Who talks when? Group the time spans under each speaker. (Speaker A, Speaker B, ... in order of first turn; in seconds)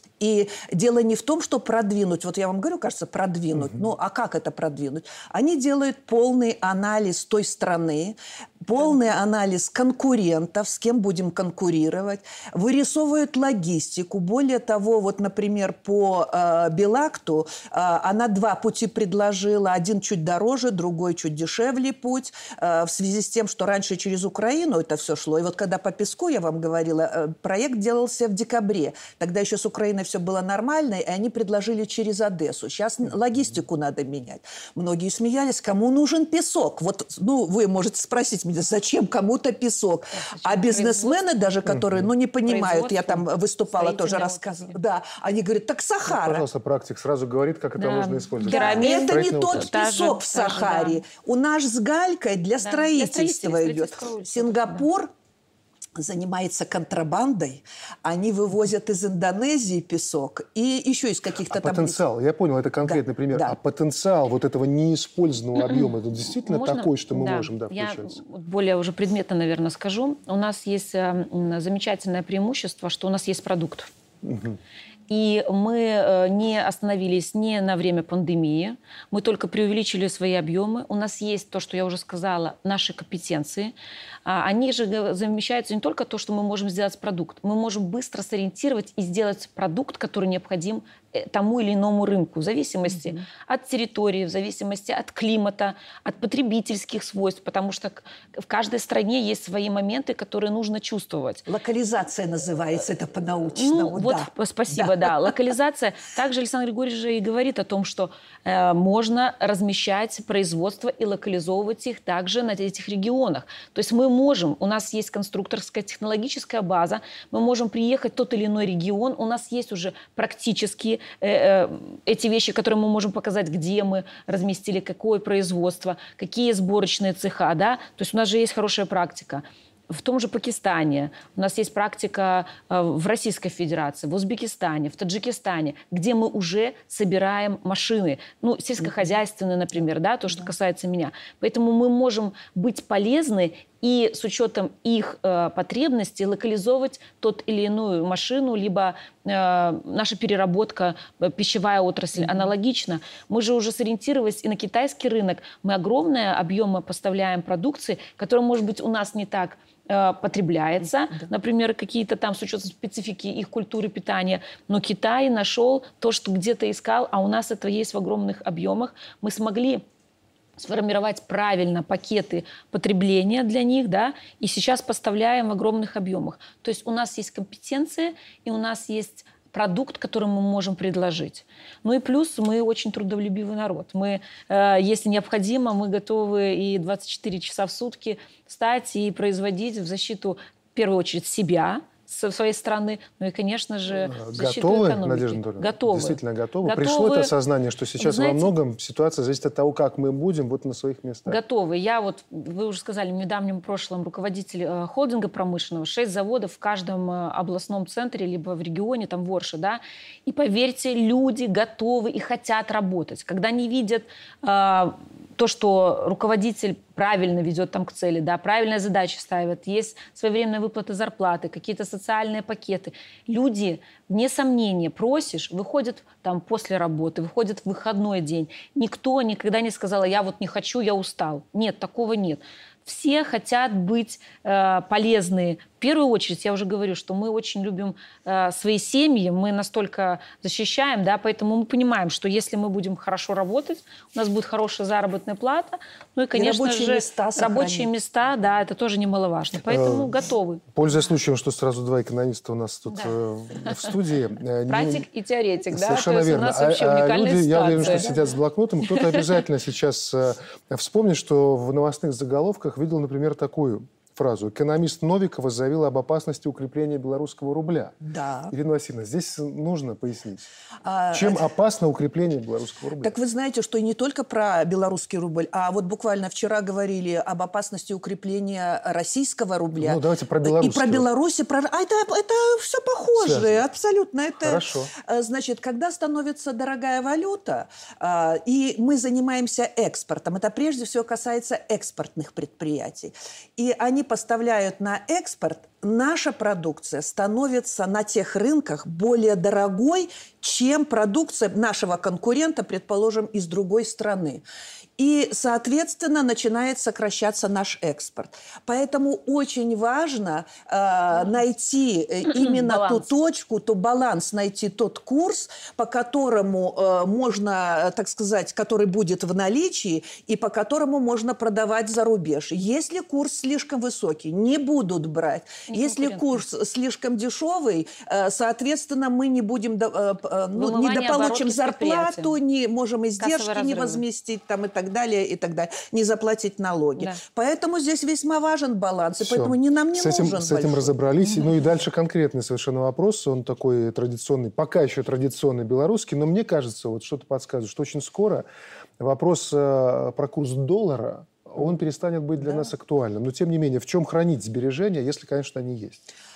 Speaker A: 0.2-46.4, 48.4-55.1, 56.0-62.0, 62.9-63.6, 101.5-105.1, 152.2-152.5, 246.3-247.9, 257.8-258.0, 268.0-268.5, 270.8-271.4, 273.0-304.4, 305.0-340.9
Speaker B: 3.6-3.8, 41.7-42.1, 46.1-49.7, 61.5-68.2, 74.2-74.6, 194.0-201.4, 249.7-250.2, 250.7-255.1, 255.7-268.0, 268.5-270.5, 271.1-273.1, 279.8-281.1, 283.2-283.6, 284.4-284.9, 339.2-348.4, 349.0-356.0
Speaker C: 40.2-41.6, 42.4-44.8, 47.8-51.0, 52.6-54.9, 66.4-73.9, 75.1-83.7, 84.2-101.5, 103.6-169.8, 170.6-197.3, 198.0-198.5, 201.3-250.6, 252.9-253.2, 254.7-258.2, 258.9-259.2, 312.3-313.1, 325.7-326.4, 330.6-332.4, 333.2-334.0, 337.0-337.2